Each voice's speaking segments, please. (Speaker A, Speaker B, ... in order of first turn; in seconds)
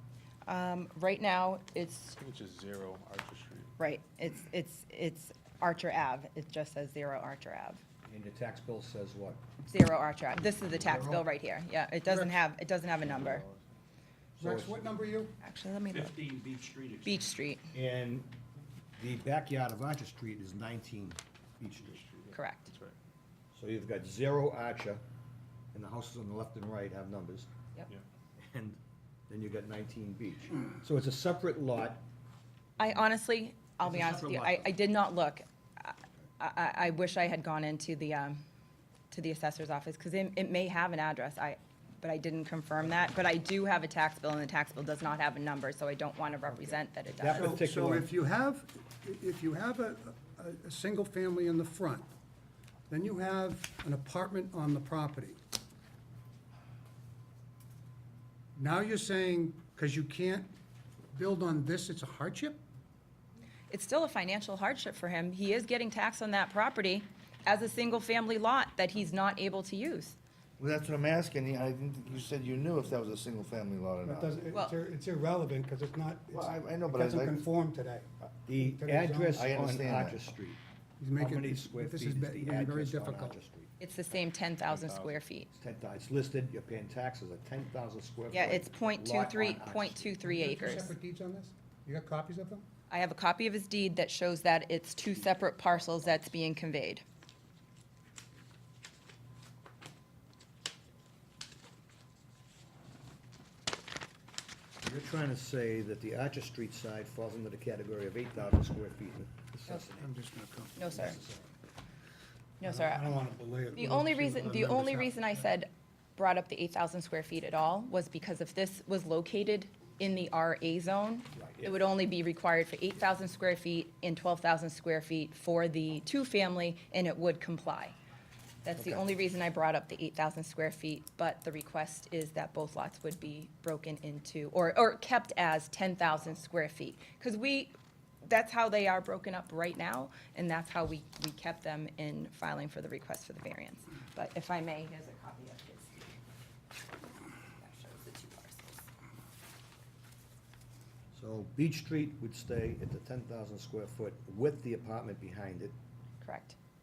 Speaker A: 0.5-2.2, 3.8-7.8, 9.6-13.4, 15.4-16.2, 17.0-17.6, 22.3-22.7, 32.8-38.4, 39.1-47.6, 63.7-70.2, 74.5-74.8, 83.8-85.5, 88.3-90.9, 92.9-97.0, 110.8-111.2, 112.6-128.0, 128.6-146.1, 147.6-148.8, 156.2-156.6
Speaker B: 2.2-3.7, 13.0-13.6, 21.8-22.9, 84.2-85.2
Speaker C: 8.0-9.4, 10.8-11.2, 14.4-14.8, 15.9-18.3, 18.9-22.0, 23.5-25.0, 25.7-27.5, 28.4-32.0, 33.8-34.7, 46.6-48.1, 78.4-80.6, 81.2-83.7, 85.5-90.2, 104.8-110.1, 110.9-111.5, 121.3-121.8, 128.8-129.1, 151.1-155.7
Speaker D: 14.4-15.3, 47.3-52.1, 52.9-55.4, 58.5-60.5, 61.1-62.6, 74.0-79.4, 81.0-83.4, 90.2-92.7, 110.0-111.0, 112.6-115.5
Speaker E: 70.6-74.3, 76.3-77.5, 79.3-80.2